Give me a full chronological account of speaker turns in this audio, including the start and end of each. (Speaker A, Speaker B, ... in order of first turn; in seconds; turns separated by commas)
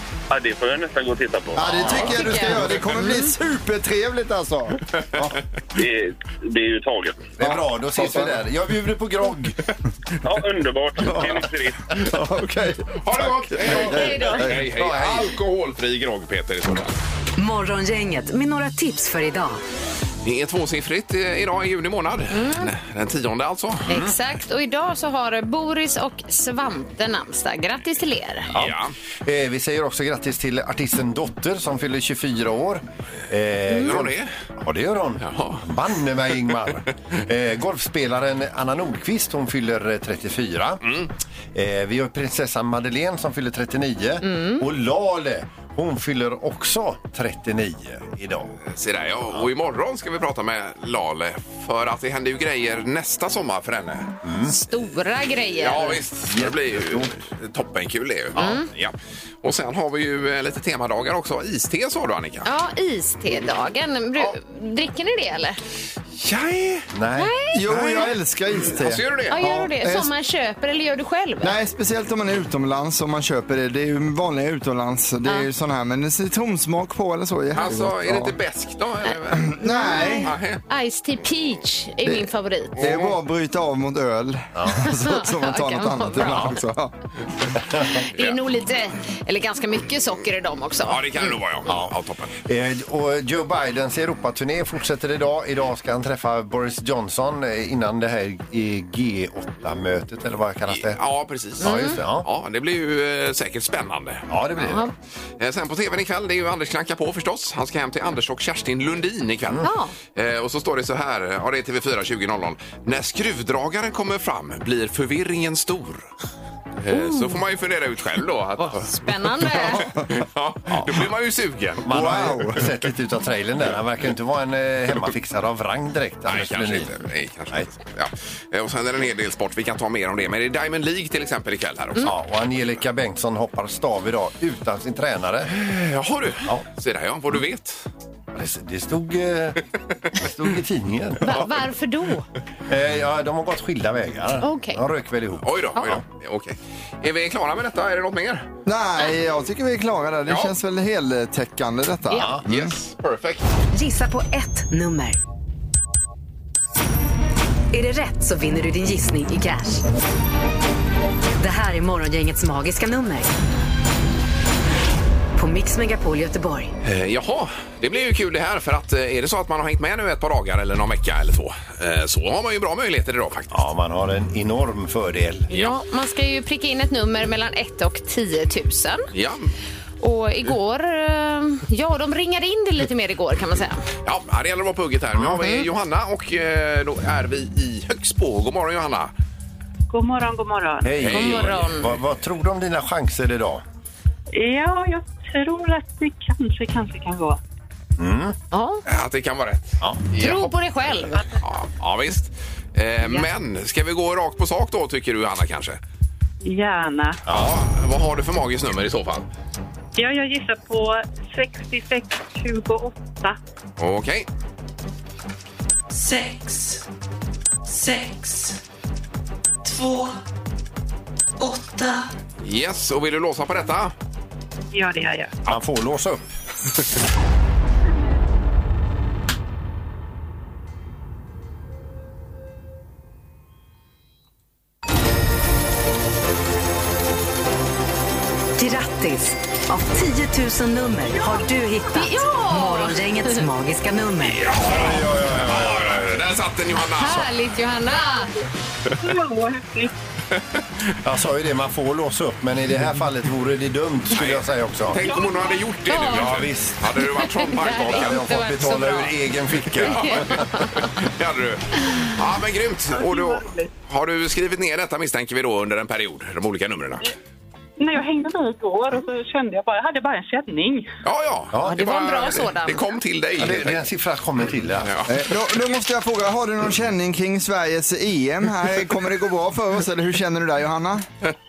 Speaker A: 0.3-2.0, Speaker B: 1.5-5.4, Speaker C: 1.6-2.6, Speaker D: 2.0-3.3, Speaker A: 5.7-7.3, Speaker C: 7.4-9.6, Speaker B: 7.4-8.4, Speaker A: 10.2-11.9, Speaker B: 11.1-11.3, Speaker B: 12.0-13.0, Speaker E: 13.0-16.9, Speaker B: 13.6-14.7, Speaker C: 13.7-15.3, Speaker D: 13.7-14.5, Speaker F: 17.4-19.6, Speaker E: 20.2-23.8, Speaker D: 22.3-22.7, Speaker D: 23.9-28.5, Speaker E: 28.5-28.9, Speaker C: 28.5-41.0, Speaker E: 33.8-34.3, Speaker E: 35.2-35.6, Speaker C: 41.5-48.5, Speaker D: 44.2-44.6, Speaker E: 48.6-54.1, Speaker C: 54.2-54.5, Speaker D: 54.5-56.0, Speaker E: 55.6-62.5, Speaker C: 56.3-57.1, Speaker C: 58.3-58.6, Speaker D: 58.4-58.7, Speaker D: 62.4-65.6, Speaker E: 66.2-66.9, Speaker C: 66.9-67.3, Speaker D: 67.2-68.1, Speaker B: 67.5-70.1, Speaker E: 67.7-68.1, Speaker E: 68.7-69.4, Speaker D: 69.3-71.5, Speaker B: 71.4-78.3, Speaker E: 77.5-79.6, Speaker B: 79.4-80.3, Speaker D: 79.6-82.9, Speaker E: 80.2-80.6, Speaker B: 82.0-86.9, Speaker E: 82.8-83.1, Speaker C: 84.5-84.9, Speaker D: 84.8-86.6, Speaker C: 86.3-86.5, Speaker C: 87.7-88.0, Speaker D: 88.1-91.0, Speaker E: 90.8-92.3, Speaker C: 91.7-101.0, Speaker E: 100.7-104.2, Speaker D: 101.6-102.0, Speaker C: 101.6-102.3, Speaker C: 104.3-104.9, Speaker D: 104.6-104.9, Speaker E: 105.4-116.0, Speaker D: 109.6-109.9, Speaker E: 116.8-121.9, Speaker D: 116.9-117.4, Speaker D: 118.7-119.9, Speaker C: 121.8-127.0, Speaker B: 121.9-122.7, Speaker E: 126.2-132.1, Speaker C: 132.0-135.5, Speaker E: 135.5-137.8, Speaker C: 138.3-139.6, Speaker C: 140.1-141.5, Speaker D: 141.2-142.2, Speaker C: 142.7-146.0, Speaker D: 144.4-144.8, Speaker E: 145.4-148.5, Speaker B: 148.7-152.7, Speaker E: 150.3-150.5, Speaker C: 152.1-152.4, Speaker E: 152.2-153.4, Speaker F: 153.7-155.2, Speaker F: 157.7-159.8, Speaker F: 161.4-163.3, Speaker F: 165.3-166.7, Speaker E: 166.8-173.7, Speaker C: 173.5-175.5, Speaker D: 175.5-179.1, Speaker E: 179.1-179.5, Speaker D: 180.0-183.8, Speaker E: 184.0-189.1, Speaker D: 185.2-185.7, Speaker G: 189.9-191.0, Speaker C: 190.8-193.6, Speaker E: 190.9-191.7, Speaker D: 191.1-191.9, Speaker G: 194.3-197.4, Speaker C: 198.0-198.3, Speaker D: 198.5-198.8, Speaker E: 198.8-200.5, Speaker D: 200.1-201.2, Speaker E: 201.1-205.8, Speaker G: 206.4-207.2, Speaker E: 207.3-209.3, Speaker G: 209.9-213.4, Speaker E: 213.8-214.2, Speaker E: 222.4-223.9, Speaker G: 224.7-225.3, Speaker C: 225.5-226.2, Speaker F: 238.6-244.4, Speaker D: 241.9-243.5, Speaker E: 244.2-247.3, Speaker C: 244.6-246.2, Speaker D: 246.9-248.3, Speaker G: 249.0-249.9, Speaker C: 251.0-255.0, Speaker E: 254.1-258.3, Speaker G: 255.0-255.6, Speaker D: 255.9-256.4, Speaker C: 256.1-256.8, Speaker D: 257.0-259.1, Speaker C: 257.6-260.6, Speaker E: 259.7-267.1, Speaker D: 259.9-260.9, Speaker G: 262.9-263.7, Speaker G: 267.8-270.9, Speaker E: 271.0-273.8, Speaker D: 271.7-272.9, Speaker C: 273.4-274.9, Speaker E: 274.8-275.2, Speaker B: 275.1-281.1